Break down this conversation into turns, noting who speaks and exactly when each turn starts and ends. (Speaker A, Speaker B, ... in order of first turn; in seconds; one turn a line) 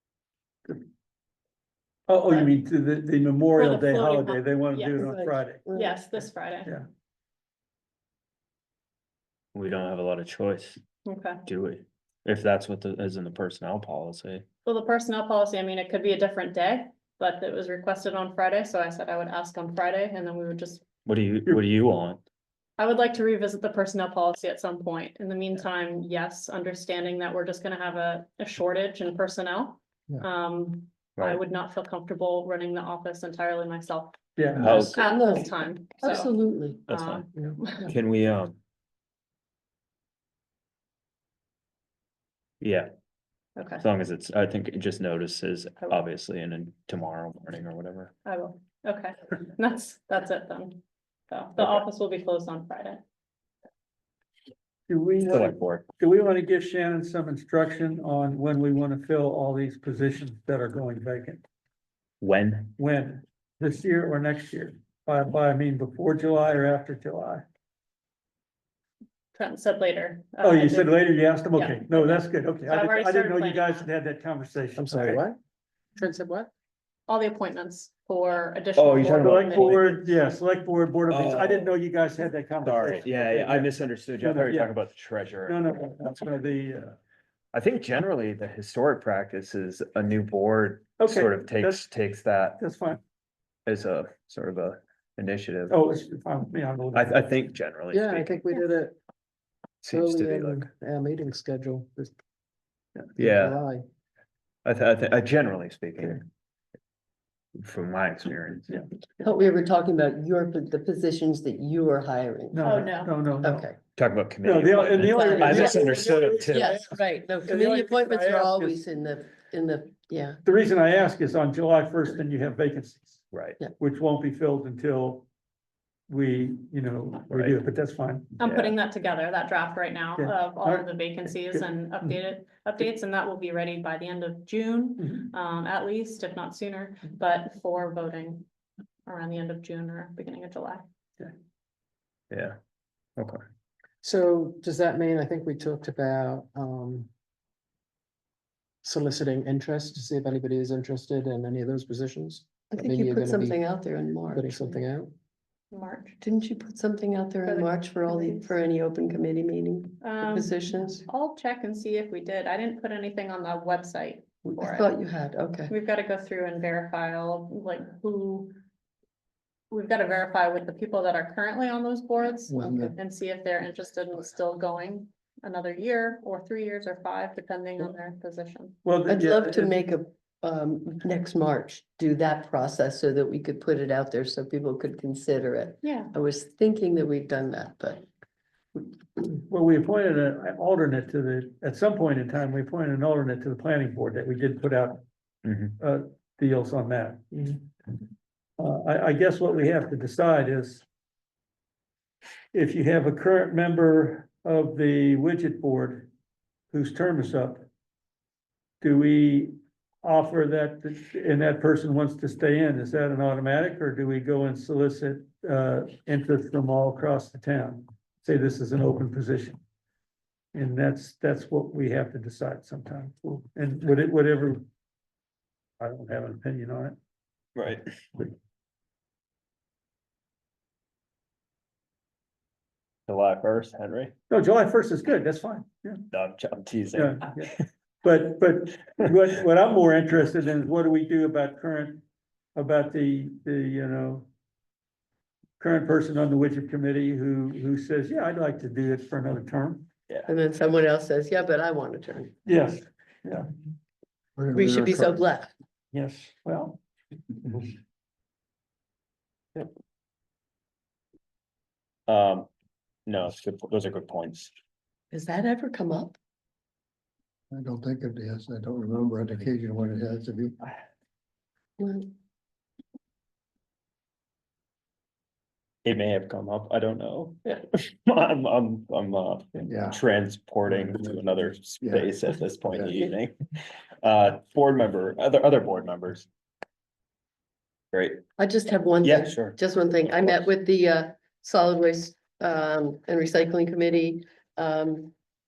Speaker A: 2.1-5.7
Speaker B: 3.6-5.0
Speaker C: 5.0-6.0
Speaker B: 5.7-6.7
Speaker D: 9.5-10.8
Speaker B: 11.0-11.4
Speaker D: 11.4-14.4
Speaker B: 14.6-20.8
Speaker D: 21.0-22.2
Speaker B: 22.8-36.3
Speaker A: 34.4-34.7
Speaker D: 34.6-35.0
Speaker C: 34.7-36.8
Speaker D: 36.9-37.3
Speaker B: 36.9-37.9
Speaker D: 37.8-38.5
Speaker D: 42.6-42.9
Speaker B: 43.5-43.8
Speaker D: 43.8-48.1
Speaker B: 48.2-53.0
Speaker A: 54.9-61.4
Speaker D: 55.2-55.8
Speaker D: 62.2-62.7
Speaker A: 62.8-67.4
Speaker B: 69.3-71.0
Speaker A: 70.4-75.2
Speaker B: 71.5-73.9
Speaker E: 74.8-75.4
Speaker E: 76.0-76.5
Speaker B: 77.1-79.8
Speaker D: 78.8-79.9
Speaker A: 79.1-84.8
Speaker D: 81.1-81.6
Speaker D: 82.6-85.5
Speaker A: 85.4-87.0
Speaker D: 87.5-92.6
Speaker A: 91.0-91.8
Speaker A: 92.6-93.0
Speaker D: 93.7-95.8
Speaker A: 95.7-97.1
Speaker D: 96.9-98.4
Speaker E: 97.9-99.0
Speaker D: 99.8-100.7
Speaker E: 99.8-102.1
Speaker E: 103.2-103.8
Speaker D: 103.2-103.6
Speaker D: 104.6-106.2
Speaker D: 107.6-108.8
Speaker C: 109.2-112.9
Speaker A: 112.5-113.7
Speaker B: 112.6-113.1
Speaker C: 113.4-113.8
Speaker D: 114.0-116.7
Speaker A: 114.4-118.8
Speaker C: 115.2-120.4
Speaker A: 120.4-123.2
Speaker D: 123.3-123.6
Speaker A: 123.8-125.2
Speaker A: 126.1-128.4
Speaker D: 127.3-127.6
Speaker B: 128.4-138.4
Speaker D: 128.4-128.7
Speaker A: 130.2-130.9
Speaker A: 135.0-135.3
Speaker B: 139.1-140.8
Speaker D: 142.3-142.6
Speaker E: 144.0-147.1
Speaker E: 148.8-153.6
Speaker C: 152.7-154.8
Speaker E: 154.3-155.1
Speaker B: 155.7-156.2
Speaker C: 156.2-161.1
Speaker B: 157.4-158.5
Speaker B: 160.0-164.9
Speaker C: 164.4-165.7
Speaker B: 165.7-168.6
Speaker B: 169.7-178.8
Speaker F: 172.5-172.9
Speaker A: 178.8-179.7
Speaker C: 179.1-188.0
Speaker B: 185.8-186.1
Speaker A: 189.2-195.0
Speaker D: 195.4-195.7
Speaker A: 195.8-197.6
Speaker A: 198.6-200.8
Speaker A: 202.5-206.1
Speaker A: 206.7-207.6
Speaker A: 208.8-219.6
Speaker A: 220.5-224.6
Speaker A: 225.8-226.9
Speaker D: 227.6-227.8
Speaker D: 233.1-234.1
Speaker A: 234.3-236.0
Speaker D: 236.1-237.6
Speaker A: 236.9-237.5
Speaker A: 238.0-242.0
Speaker A: 242.6-244.3
Speaker A: 245.6-249.9
Speaker C: 250.3-252.3
Speaker A: 252.4-253.5
Speaker F: 254.4-255.2
Speaker C: 254.5-255.5
Speaker A: 255.9-256.8
Speaker A: 257.4-257.7
Speaker D: 262.1-262.5
Speaker D: 263.1-264.5
Speaker C: 265.1-266.1
Speaker F: 267.5-270.6
Speaker C: 271.8-272.1
Speaker D: 275.8-283.3
Speaker F: 279.7-280.0
Speaker F: 280.7-281.2
Speaker F: 281.8-282.1
Speaker F: 282.7-283.0
Speaker D: 284.0-286.3
Speaker D: 287.9-288.2
Speaker C: 288.4-295.1
Speaker D: 289.0-290.4